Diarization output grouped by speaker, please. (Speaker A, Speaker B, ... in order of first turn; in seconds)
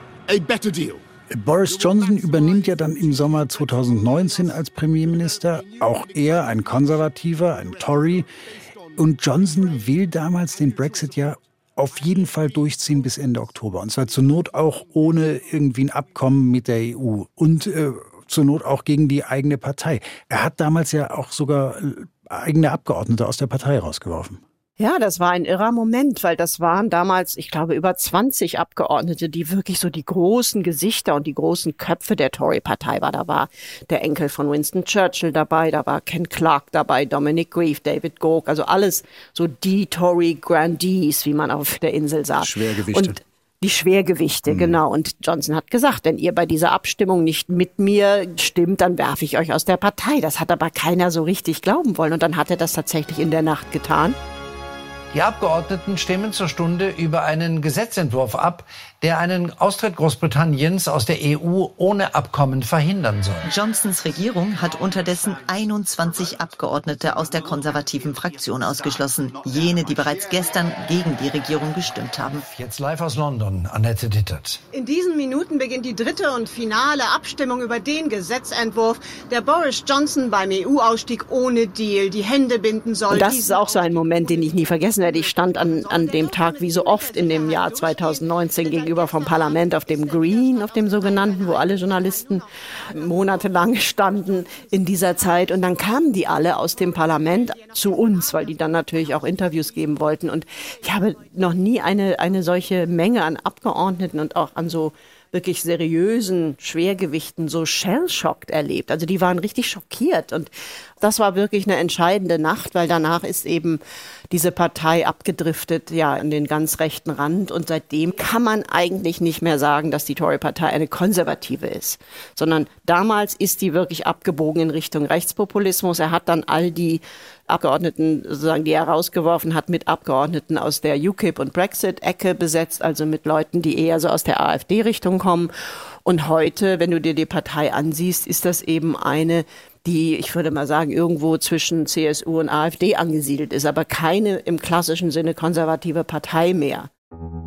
Speaker A: 0.3-1.0, 1.6-11.4, 12.0-13.1, 14.0-15.1
Speaker B: 1.3-8.3, 8.9-24.4, 42.4-43.2, 44.5-44.8
Speaker C: 24.8-54.2, 83.1-113.8, 114.3-135.5, 136.1-146.9
Speaker D: 55.1-63.5, 72.5-74.6
Speaker E: 63.4-72.4
Speaker F: 74.7-88.2, 88.7-89.4, 91.3-91.6